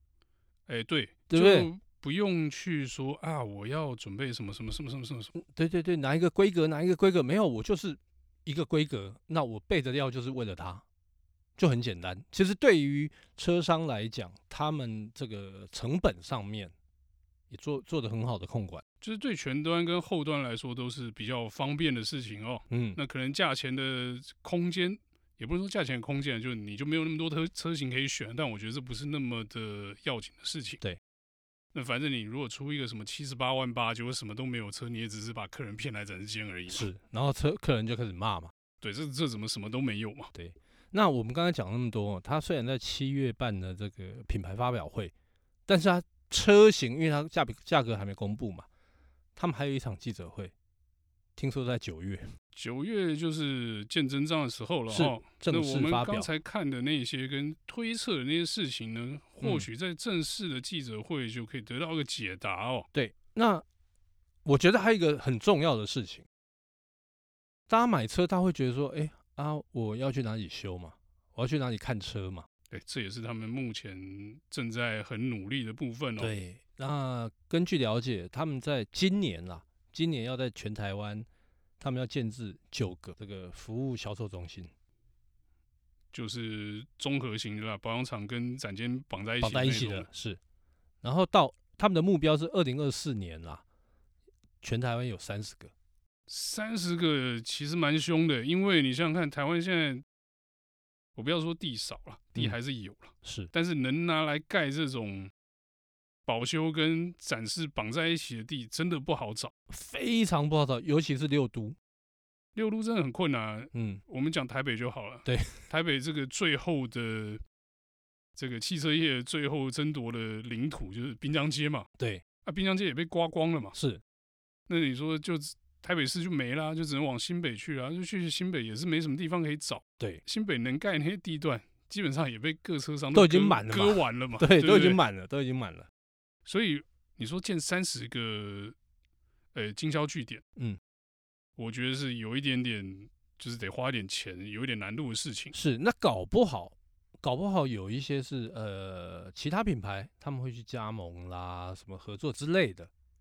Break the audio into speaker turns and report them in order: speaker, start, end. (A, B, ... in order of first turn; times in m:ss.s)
0:00.7-0:05.3 A
0:01.3-0:01.7 B
0:05.3-0:10.8 B
0:11.6-0:16.7 B
0:17.5-0:18.8 B
0:19.0-0:30.8 A
0:22.7-0:23.0 B
0:31.7-0:36.9 A
0:36.7-0:38.5 B
0:38.8-0:40.3 A
0:40.3-0:45.1 B
0:45.7-0:48.7 B
0:49.4-0:50.5 B
0:51.4-0:52.2 B
0:52.5-1:02.9 A
0:54.9-0:56.3 B
0:59.4-0:59.7 B
1:02.9-1:03.6 B
1:04.4-1:06.2 B
1:07.7-1:12.4 B
1:12.7-1:16.3 A
1:16.2-1:21.3 B
1:21.8-1:24.7 B
1:26.1-1:30.1 A
1:29.4-1:30.4 B
1:31.0-1:33.6 B
1:34.6-1:35.7 B
1:36.3-1:40.0 A
1:41.2-1:45.3 A
1:43.2-1:43.5 B
1:46.2-1:49.5 A
1:49.7-1:51.8 B
1:52.5-1:57.4 A
1:53.7-1:54.0 B
1:55.2-1:55.6 B
1:58.4-2:01.9 A
2:02.4-2:03.8 A
2:03.7-2:04.0 B
2:04.7-2:15.0 A
2:13.1-2:15.9 B
2:16.4-2:18.7 A
2:19.5-2:20.4 A
2:21.6-2:25.5 A
2:25.5-2:32.9 B